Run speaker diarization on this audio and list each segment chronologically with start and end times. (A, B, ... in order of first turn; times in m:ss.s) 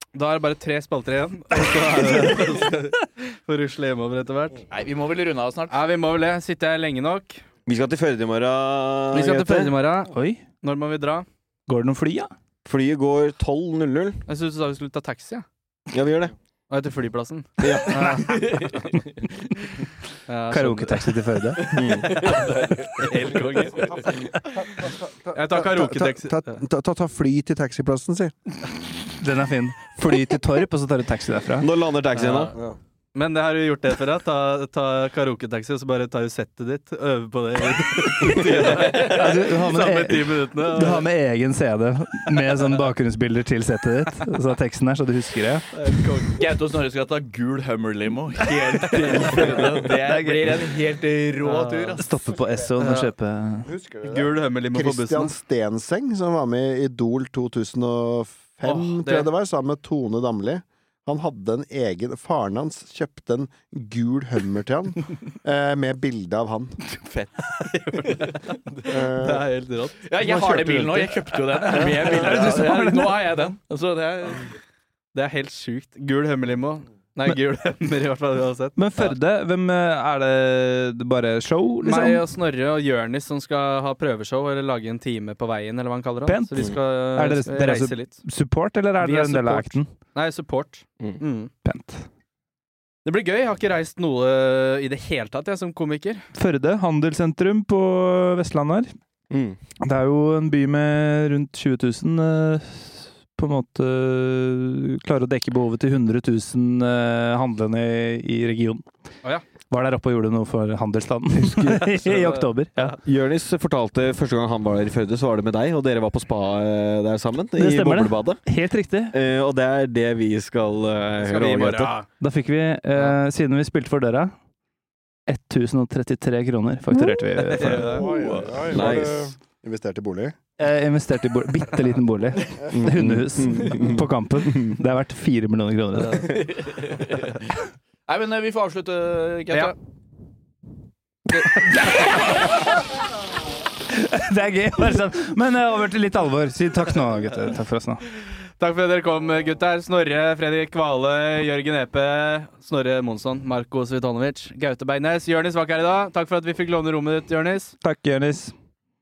0:00.2-0:04.6 A
0:04.7-0:05.8 B
0:05.7-0:07.4 A
0:07.7-0:09.8 C
0:09.1-0:11.3 A
0:10.1-0:10.4 D
0:11.7-0:12.3 D
0:12.6-0:14.2 C
0:14.3-0:15.4 A
0:15.9-0:16.3 C
0:16.7-0:19.0 A
0:17.6-0:18.2 C
0:20.3-0:24.3 A
0:20.5-0:22.0 D
0:21.7-0:22.3 C
0:24.0-0:28.4 E
0:25.4-0:26.6 A
0:29.2-0:31.7 D
0:31.6-0:32.6 C
0:32.2-0:32.6 A
0:33.2-0:41.1 A
0:38.8-0:45.7 D
0:45.7-0:46.4 A
0:46.4-0:52.1 B
0:49.8-0:50.6 D
0:51.4-0:52.0 A
0:52.0-0:53.7 D
0:52.8-0:53.1 A
0:53.6-1:06.8 E
0:54.1-0:55.4 A
0:58.6-0:59.3 A
1:06.9-1:08.3 B
1:07.6-1:10.0 A
1:08.9-1:09.5 E
1:10.1-1:14.5 B
1:10.2-1:13.4 D
1:15.1-1:19.2 A
1:18.8-1:22.2 D
1:21.8-1:28.2 A
1:26.3-1:29.9 D
1:29.0-1:31.5 A
1:31.6-1:32.1 D
1:33.0-1:36.3 A
1:36.4-1:38.9 D
1:39.3-1:39.6 C
1:39.8-1:48.9 D
1:49.7-1:53.0 D
1:51.6-1:53.0 A
1:53.0-1:58.4 C
1:57.6-1:59.1 D
1:59.1-2:02.0 C
2:01.2-2:02.1 A
2:02.2-2:04.3 D
2:05.3-2:08.1 D
2:07.4-2:09.0 A
2:07.8-2:10.4 E
2:08.7-2:09.2 C
2:10.6-2:16.4 D
2:12.8-2:14.8 C
2:16.6-2:17.0 B
2:18.1-2:19.8 B
2:21.6-2:22.6 D
2:23.9-2:28.0 D
2:28.6-2:37.8 A
2:37.8-2:38.5 D